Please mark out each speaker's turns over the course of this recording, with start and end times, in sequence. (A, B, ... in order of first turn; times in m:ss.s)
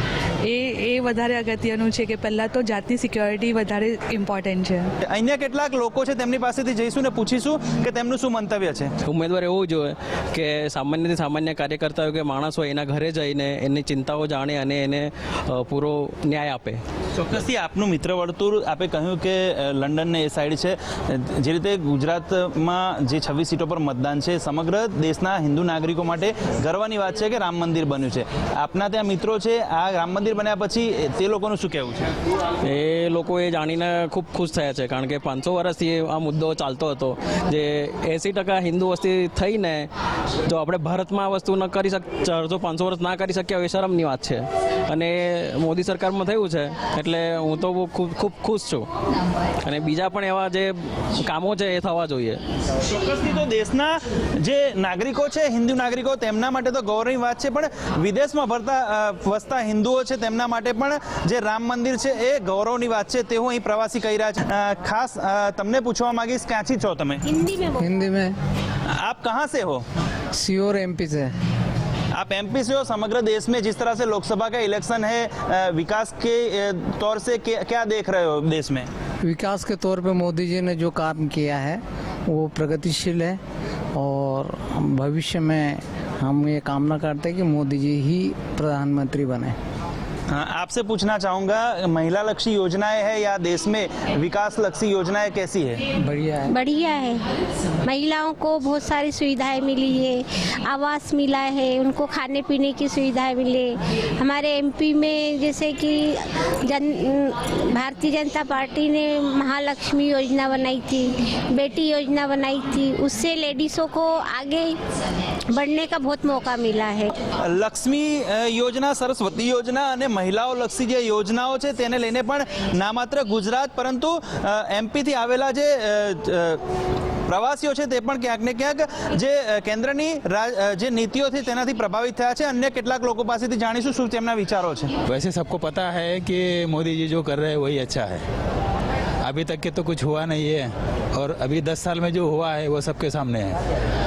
0:00.4-0:04.9 A
0:05.0-0:08.9 B
0:09.0-0:16.8 C
0:17.2-0:32.1 B
0:32.6-0:39.9 C
0:40.5-0:48.9 C
0:49.6-0:52.4 C
0:52.8-1:07.2 B
1:07.3-1:07.8 D
1:07.8-1:08.3 E
1:08.9-1:09.8 B
1:10.3-1:11.3 E
1:12.1-1:18.9 B
1:19.2-1:23.4 E
1:23.9-1:29.5 E
1:30.3-1:35.8 B
1:36.0-1:36.5 E
1:36.5-1:37.2 D
1:37.8-1:54.7 D
1:55.5-1:57.1 D
1:57.4-2:06.6 B
2:07.3-2:14.9 B
2:15.0-2:18.2 F
2:19.2-2:23.6 F